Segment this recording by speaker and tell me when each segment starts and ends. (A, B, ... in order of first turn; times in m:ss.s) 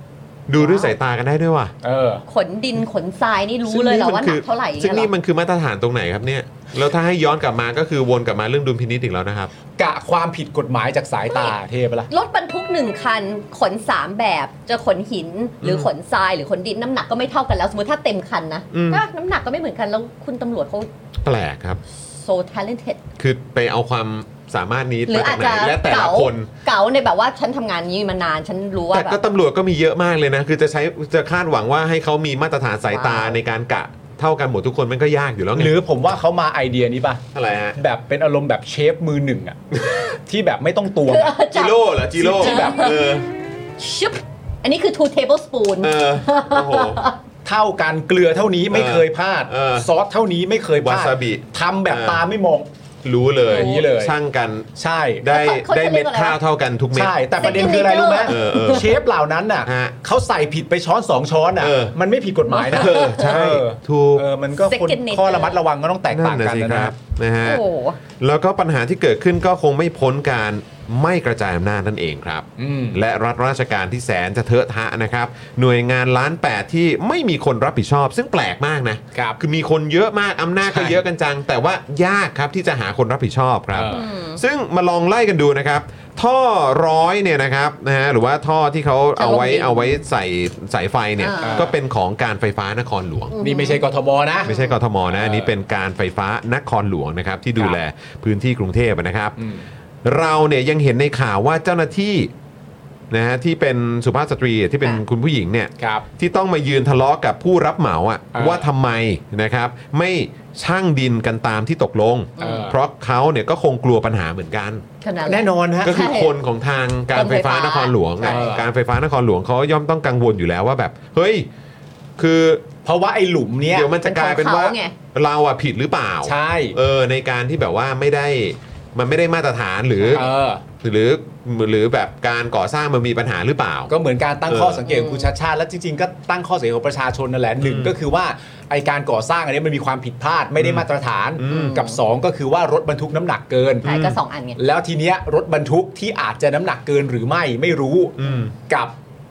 0:00.5-0:01.7 A
0:00.6-0:00.9 B
0:01.8-0:02.2 C
0:02.3-0:05.1 B
0:03.7-0:09.5 A
0:09.8-0:12.1 C
0:12.1-0:20.9 B
0:15.6-0:15.9 A
0:18.7-0:19.0 A
0:21.2-0:21.8 A
0:22.1-0:23.0 B
0:23.2-0:26.5 A
0:25.1-0:29.2 B
0:28.9-0:35.7 A
0:32.9-0:33.4 B
0:35.6-0:37.2 C
0:37.3-0:37.8 A
0:37.8-0:39.6 C
0:39.7-0:40.1 A
0:40.3-0:41.3 C
0:41.1-0:43.1 B
0:41.5-0:43.3 A
0:42.2-0:42.9 C
0:43.8-0:47.2 B
0:45.8-0:47.1 A
0:47.4-0:52.7 C
0:48.7-0:49.9 A
0:50.8-0:52.3 A
0:53.0-0:54.7 A
0:53.4-0:54.1 C
0:53.5-0:53.8 B
0:54.8-0:55.3 C
0:55.2-0:58.9 A
0:55.2-0:56.4 B
0:56.9-1:06.9 C
0:57.4-0:58.8 B
0:59.6-0:59.9 A
1:01.6-1:01.9 A
1:02.6-1:04.3 A
1:02.7-1:03.3 B
1:04.6-1:05.6 B
1:06.1-1:07.6 A
1:07.4-1:08.0 B
1:08.2-1:33.3 A
1:12.6-1:13.0 C
1:19.1-1:19.4 C
1:20.6-1:21.0 C
1:23.7-1:24.1 C
1:23.9-1:24.4 B
1:29.2-1:30.0 B
1:31.2-1:31.7 B
1:31.4-1:31.7 C
1:33.3-1:33.8 B
1:33.4-1:34.5 C
1:34.4-1:34.8 B
1:34.4-1:39.4 A
1:35.1-1:35.5 C
1:39.4-1:39.7 C
1:40.0-1:42.3 A
1:43.1-1:54.8 A
1:45.8-1:46.1 C
1:48.3-1:48.7 C
1:52.4-1:52.7 B
1:52.4-1:52.8 C
1:55.0-1:56.3 B
1:55.2-1:56.0 C
1:55.8-2:01.5 A
1:57.1-1:58.6 B
1:58.2-1:58.7 C
2:02.2-2:02.6 A
2:02.8-2:03.9 C
2:03.7-2:13.9 A
2:04.0-2:04.9 B
2:06.2-2:06.8 C
2:10.1-2:10.6 C
2:13.9-2:23.9 C
2:14.5-2:14.8 A
2:14.8-2:15.3 B
2:17.6-2:17.9 A
2:20.6-2:20.8 A
2:21.5-2:22.0 B
2:23.8-2:24.2 A
2:23.8-2:24.6 B
2:24.6-2:28.9 C
2:28.2-2:28.5 A